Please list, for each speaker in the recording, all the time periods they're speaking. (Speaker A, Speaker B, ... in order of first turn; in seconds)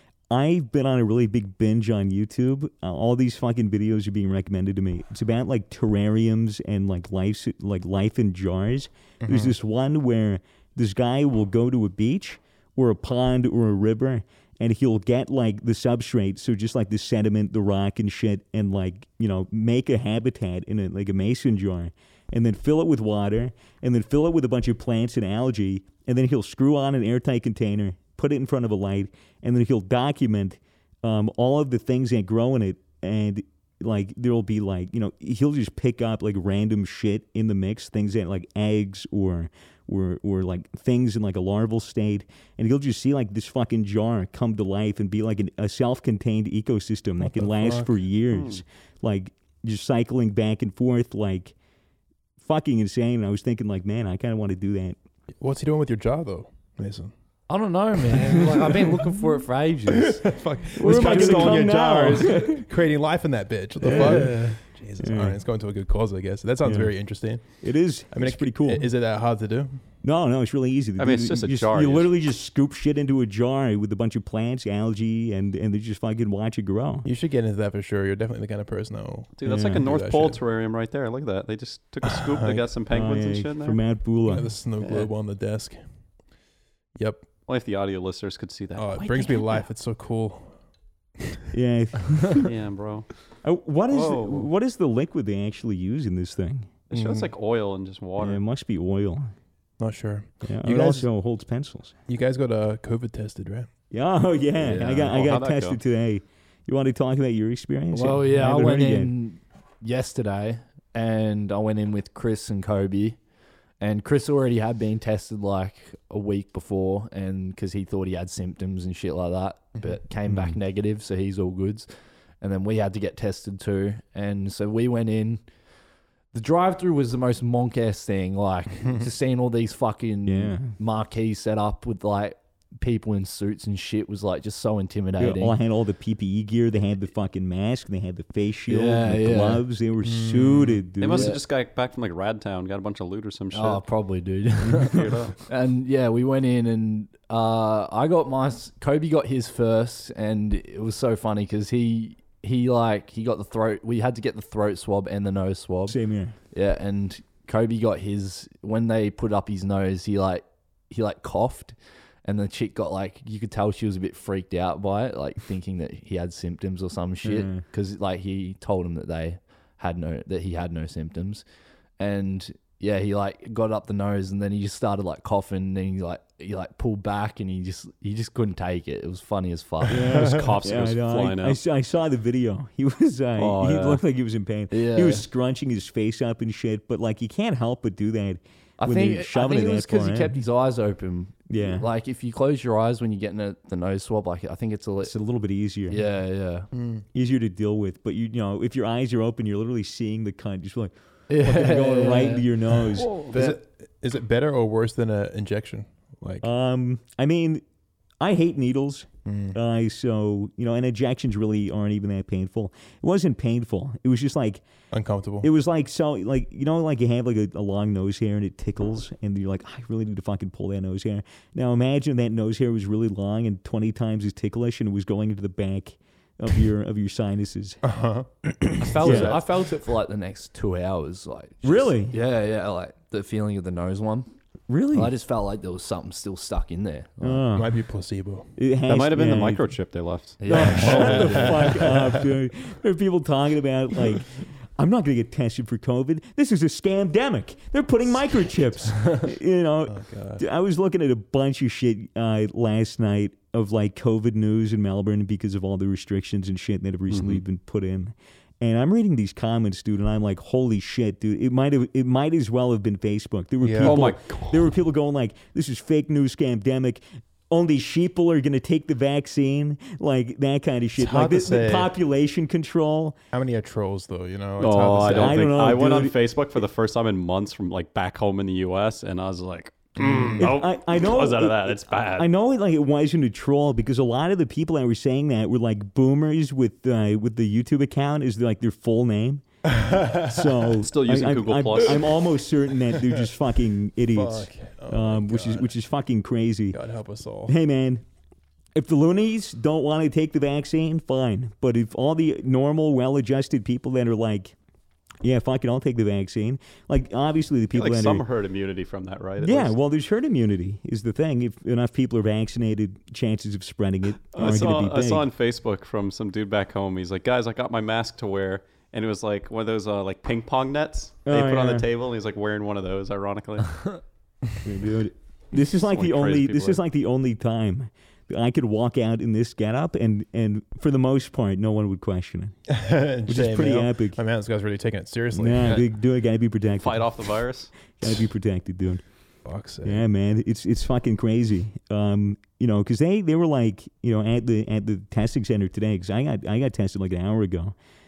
Speaker A: 0.3-51.5, 52.4-55.0, 60.7-62.6, 63.8-64.5, 65.0-65.4, 66.7-66.9, 67.6-68.9, 70.0-77.1, 79.5-79.8, 82.9-84.5, 91.5-92.5, 93.4-96.7, 98.2-99.3, 100.4-102.0, 103.9-109.1, 120.3-120.6, 130.3-130.7, 135.2-141.4, 144.6-145.1, 155.9-156.3, 167.2-167.6, 179.8-190.3, 191.5-191.9, 195.0-196.0, 197.1-203.2, 206.4-207.6, 208.2-214.6, 215.4-227.8, 229.0-229.4, 231.6-232.2, 234.7-235.1, 237.2-237.8, 238.6-239.7, 240.4-273.2, 275.0-276.1, 280.4-289.4, 290.2-296.8, 297.5-298.0, 298.8-304.6, 305.2-308.2, 309.4-315.2, 321.3-321.9, 324.6-332.6, 333.3-334.2, 335.3-337.2, 338.0-339.0, 339.8-347.8
Speaker B: 9.2-9.6, 47.2-47.9, 55.4-57.1, 59.9-67.5, 68.1-69.8, 77.0-80.4, 82.0-82.7, 84.3-85.8, 87.0-87.3, 88.8-90.5, 96.9-97.3, 99.8-101.1, 102.1-103.7, 140.0-140.8, 180.1-180.4, 196.7-197.0, 203.3-206.5, 209.3-209.6, 214.9-215.5, 227.8-229.5, 237.5-238.5, 240.7-242.3, 249.9-250.4, 263.6-264.2, 271.0-271.9, 273.3-275.7, 280.0-280.5, 289.7-290.6, 294.1-295.7, 296.7-297.6, 332.7-335.9, 339.4-340.0
Speaker C: 48.3-48.6, 71.0-72.1, 79.4-83.8, 84.8-85.1, 87.5-89.0, 92.4-93.1, 93.9-94.5, 96.9-98.4, 105.1-105.8, 141.0-143.8, 144.8-145.4, 180.2-181.6, 183.4-184.0, 238.9-241.2, 257.1-257.4, 263.8-264.7, 274.6-282.3, 290.8-292.1, 307.7-309.8, 314.3-324.0, 325.6-326.8, 336.8-337.7
Speaker D: 57.5-62.4, 63.8-64.6, 89.0-89.7, 104.6-105.2, 107.9-113.2, 113.8-121.9, 122.4-125.4, 126.3-135.6, 138.7-139.6, 141.1-141.4, 143.5-156.0, 156.5-171.4, 172.0-180.3, 184.7-185.3, 188.8-195.1, 195.9-196.7, 201.3-203.6, 228.8-234.3, 234.9-237.4, 240.4-241.7